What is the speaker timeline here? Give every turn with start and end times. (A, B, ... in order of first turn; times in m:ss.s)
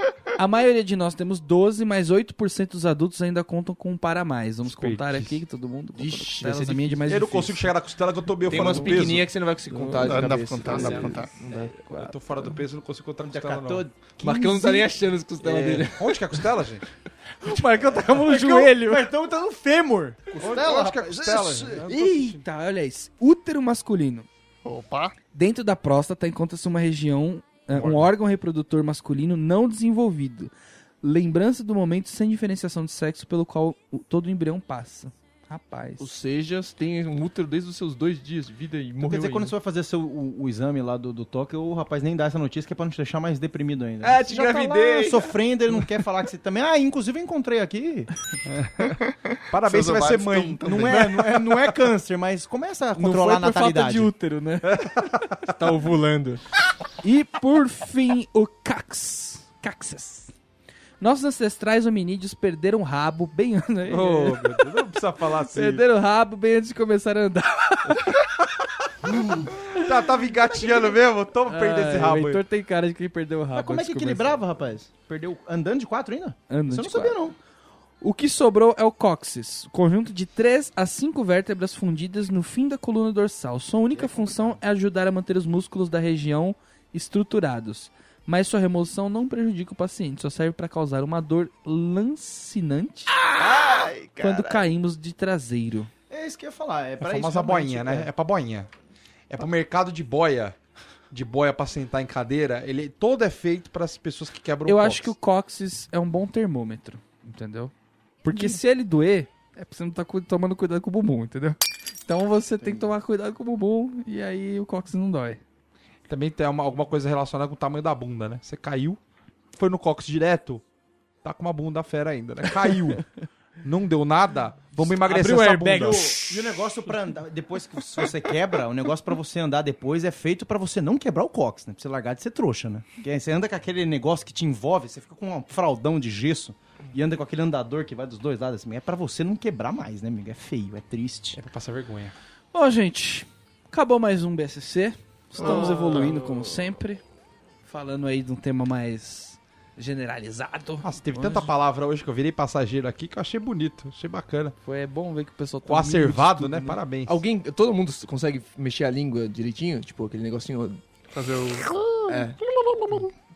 0:00.4-0:07.7 A
0:04.6-0:05.4 B
0:06.0-0:07.0 C
0:07.0-0:09.3 B
0:08.4-0:11.7 C
0:08.7-0:09.0 A
0:09.7-0:11.0 A
0:10.0-0:11.3 D
0:10.7-0:11.1 B
0:11.8-0:13.8 B
0:11.8-0:12.1 A
0:13.2-0:14.9 E
0:14.2-0:16.4 C
0:15.4-0:16.8 B
0:17.4-0:19.1 A
0:18.1-0:21.8 E
0:20.4-0:22.4 B
0:20.6-0:20.9 D
0:21.8-0:24.3 A
0:24.6-0:25.1 D
0:25.3-0:30.5 A
0:27.7-0:28.1 B
0:31.0-0:36.1 A
0:36.0-0:39.5 C
0:39.0-0:48.1 E
0:44.0-0:45.3 C
0:48.4-0:49.0 B
0:49.0-0:51.2 D
0:49.5-0:51.7 B
0:50.6-0:54.1 E
0:52.9-0:54.8 A
0:54.6-0:55.5 B
0:55.5-0:56.4 C
0:57.0-1:00.3 A
1:01.0-1:04.7 A
1:03.8-1:05.8 B
1:05.5-1:08.2 A
1:09.1-1:09.5 E
1:09.6-1:12.4 B
1:11.4-1:14.4 A
1:13.5-1:17.4 E
1:16.5-1:17.2 A
1:18.0-1:33.2 A
1:23.9-1:24.6 E
1:33.3-1:34.6 C
1:34.2-1:35.9 A
1:36.1-1:38.1 E
1:37.0-1:38.7 B
1:39.3-1:40.6 B
1:41.1-1:45.1 B
1:44.6-1:47.7 A
1:48.2-1:55.4 A
1:52.6-1:52.9 E
1:56.1-1:59.0 B
1:59.6-2:00.6 B
2:01.2-2:03.1 B
2:03.6-2:06.1 B
2:04.8-2:06.4 A
2:05.6-2:21.4 E
2:21.4-2:22.1 B
2:22.5-2:27.0 A
2:25.5-2:26.1 C
2:27.6-2:31.5 A
2:30.8-2:34.5 B
2:34.6-2:36.8 A
2:35.6-2:37.2 B
2:37.0-2:41.0 C
2:41.2-2:43.1 D
2:42.1-2:42.4 C